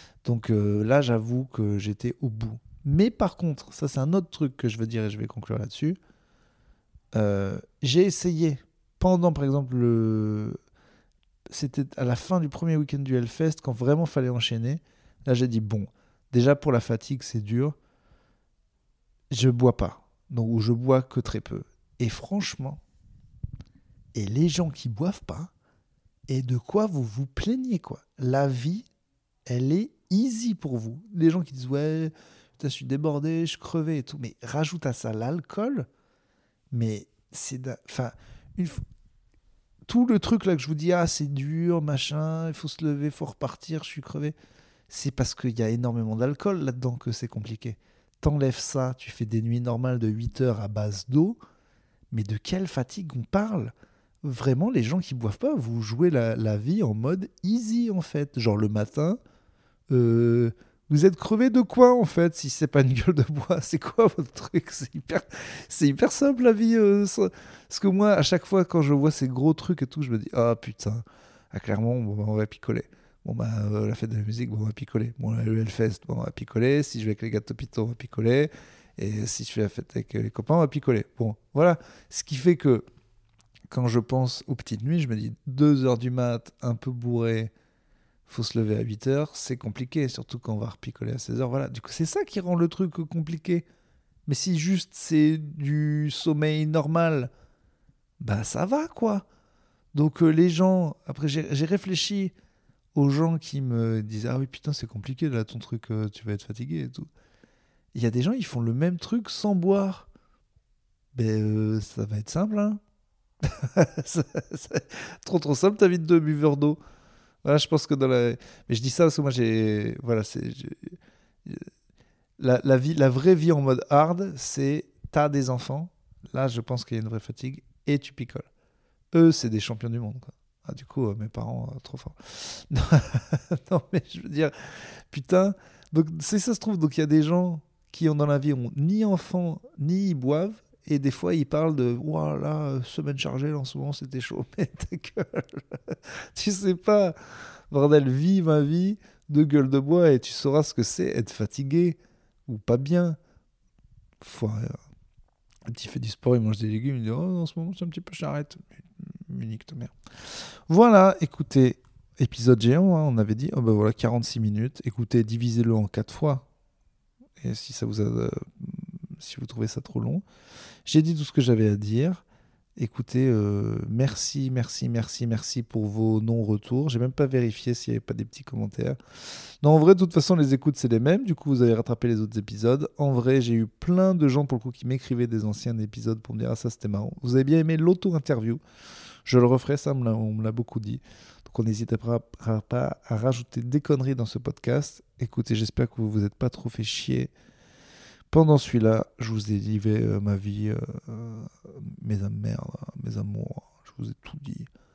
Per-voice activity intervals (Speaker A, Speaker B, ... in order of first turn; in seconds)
Speaker A: 0.2-6.0, 7.1-10.6, 11.5-17.8, 19.3-22.8, 24.1-25.5, 26.3-28.9, 29.4-35.9, 36.7-38.8, 39.9-44.3, 44.9-51.4, 52.1-59.2, 59.9-82.8, 83.7-87.5, 88.3-93.6, 94.3-97.3, 98.2-99.2, 99.9-102.3, 102.9-107.1, 107.9-110.1, 111.1-112.8, 113.4-116.8, 117.4-121.7, 122.4-128.5, 129.1-147.2, 147.7-153.2, 154.2-154.8, 155.7-159.9, 160.7-166.4, 167.4-170.2, 170.8-172.2, 172.8-179.0, 179.6-188.6, 189.2-197.3, 198.3-204.7